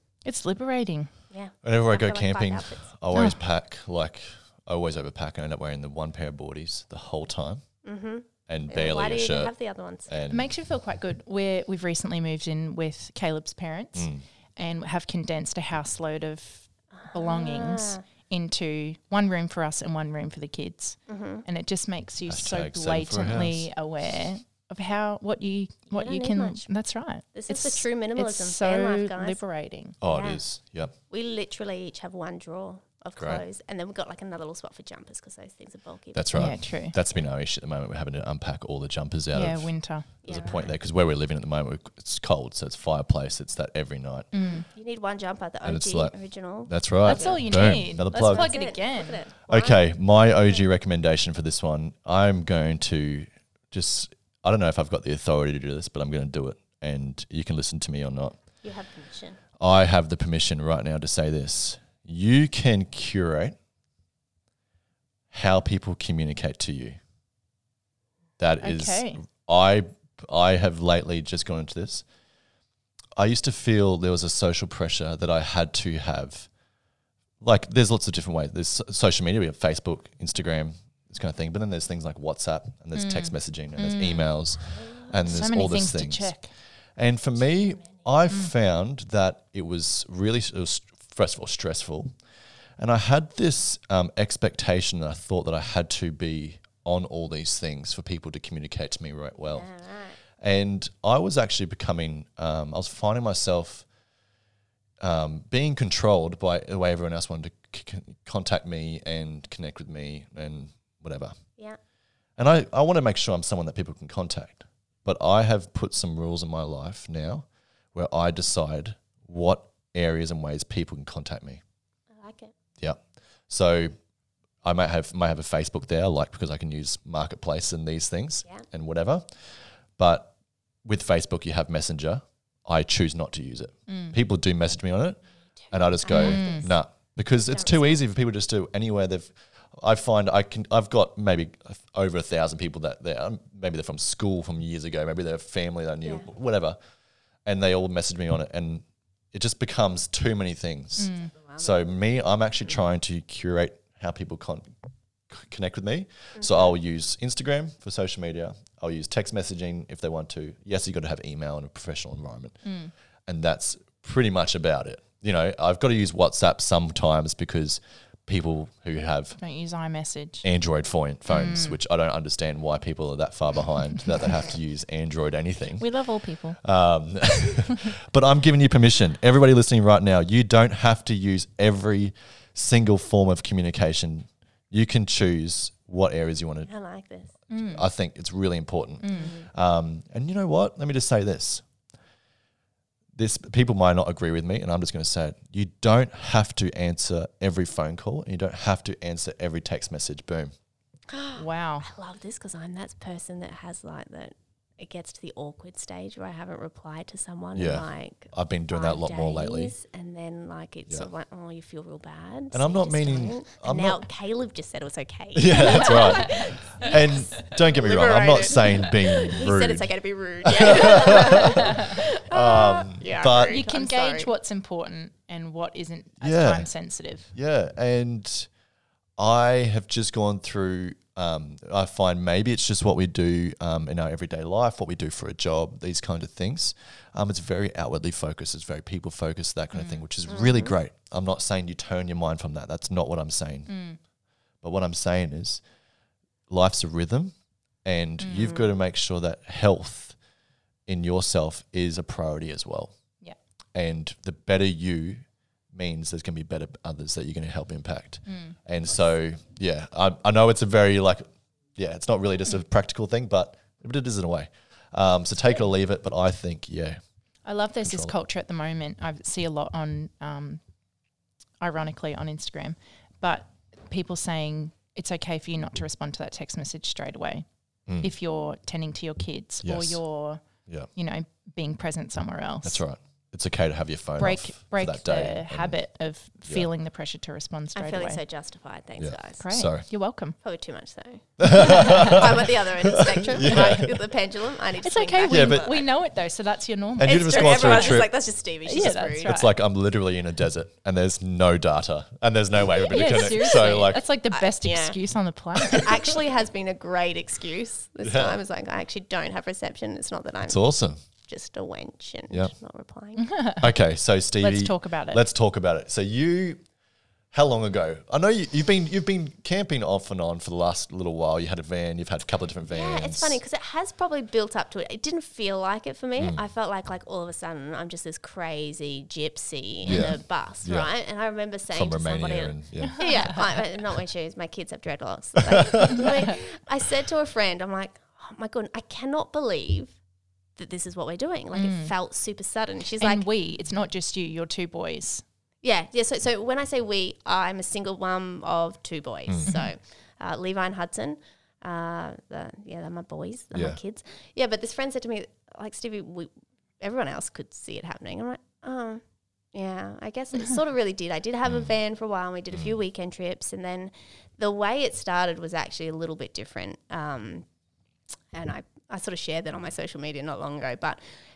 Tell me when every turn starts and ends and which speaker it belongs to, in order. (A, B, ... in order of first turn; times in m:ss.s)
0:00.2-0:01.1 A
0:01.3-0:02.9 B
0:01.6-0:07.6 C
0:03.1-0:03.4 A
0:07.8-0:10.1 B
0:08.5-0:09.5 C
0:10.1-0:10.5 C
0:10.3-0:30.0 A
0:13.9-0:14.2 C
0:16.9-0:18.0 B
0:21.1-0:21.4 B
0:22.3-0:23.7 C
0:25.9-0:26.7 B
0:27.3-0:29.4 B
0:30.0-0:30.9 C
0:30.0-0:30.4 B
0:31.1-0:36.3 B
0:33.2-0:33.4 C
0:36.1-0:39.7 C
0:36.3-0:37.0 A
0:39.3-0:40.1 A
0:40.2-0:40.7 B
0:40.2-0:44.3 C
0:44.3-0:44.6 A
0:44.7-0:50.6 B
0:45.6-0:46.1 C
0:46.7-0:48.5 C
0:47.0-0:49.2 A
0:49.5-0:58.4 C
0:58.6-0:59.4 B
0:59.6-1:03.6 C
1:05.3-1:07.0 C
1:08.4-1:12.0 C
1:08.6-1:09.2 A
1:13.2-1:16.5 C
1:17.4-1:26.3 C
1:22.9-1:24.3 A
1:24.7-1:25.4 B
1:25.2-1:26.5 A
1:27.0-1:32.1 C
1:27.8-1:28.0 B
1:32.8-1:39.7 C
1:39.5-1:40.2 B
1:40.4-1:43.8 C
1:45.0-1:51.4 C
1:52.4-2:01.6 C
2:02.1-2:02.5 B
2:02.8-2:03.9 C
2:04.6-2:09.3 C
2:10.0-2:10.3 C
2:10.8-2:15.2 C
2:13.9-2:14.2 A
2:15.6-2:16.8 B
2:15.7-2:26.8 C
2:16.1-2:16.7 A
2:17.5-2:18.0 B
2:27.4-2:34.7 C
2:31.0-2:31.3 A
2:31.4-2:31.7 B
2:35.3-2:42.6 C
2:36.4-2:36.7 B
2:42.6-2:42.9 A
2:43.3-2:49.4 C
2:49.4-2:50.4 A
2:50.4-2:55.9 C
2:51.3-2:51.8 A
2:55.8-2:56.6 A
2:56.6-3:06.7 C
3:06.6-3:07.3 B
3:07.5-3:07.8 A
3:07.5-3:11.6 C
3:09.0-3:09.3 A
3:09.1-3:09.5 B
3:13.1-3:20.5 C
3:21.1-3:44.3 B
3:21.4-3:21.9 A
3:27.5-3:29.7 C
3:32.5-3:34.0 C
3:35.3-3:39.9 C
3:40.4-3:43.6 C
3:43.5-3:47.3 A
3:46.2-3:46.7 C
3:47.3-3:48.5 C
3:49.2-4:03.7 C
3:59.7-4:00.0 A
4:00.3-4:00.8 B
4:03.7-4:04.0 A
4:04.6-4:05.6 C
4:06.5-4:07.3 C
4:07.8-4:10.2 C
4:08.2-4:08.5 A
4:08.4-4:08.6 B
4:10.9-4:12.9 C
4:13.7-4:15.2 C
4:15.7-4:27.0 C
4:18.3-4:18.5 A
4:27.4-4:30.6 A
4:27.8-4:28.1 C
4:31.6-4:37.4 A
4:37.9-4:38.1 C
4:38.0-4:42.8 A
4:39.6-4:40.0 C
4:42.6-4:45.8 C
4:44.2-4:48.2 A
4:47.8-4:49.4 B
4:49.0-4:49.8 C
4:49.4-4:50.4 A
4:50.4-4:55.8 B
4:51.4-4:54.0 C
4:51.4-4:52.2 A
4:54.8-4:58.0 A
4:55.3-4:55.7 C
4:57.0-4:58.2 C
4:57.0-4:59.4 B
4:58.6-4:59.5 A
4:58.8-5:04.0 C
5:02.8-5:06.1 A
5:03.0-5:03.7 B
5:04.3-5:05.0 B
5:05.7-5:10.7 B
5:08.0-5:08.4 C
5:10.4-5:11.0 C
5:11.2-5:13.3 B
5:13.2-5:13.6 A
5:13.6-5:16.6 C
5:14.4-5:15.2 A
5:17.3-5:23.4 C
5:22.7-5:40.0 B
5:29.8-5:30.9 C
5:31.7-5:33.1 C
5:35.4-5:36.3 C
5:40.6-5:43.3 B
5:41.5-5:41.9 A
5:43.0-5:45.2 A
5:45.6-5:59.0 B
5:49.3-5:49.5 C
5:49.4-5:49.7 A
5:53.5-5:53.8 C
5:59.5-6:07.4 B
6:08.3-6:11.0 B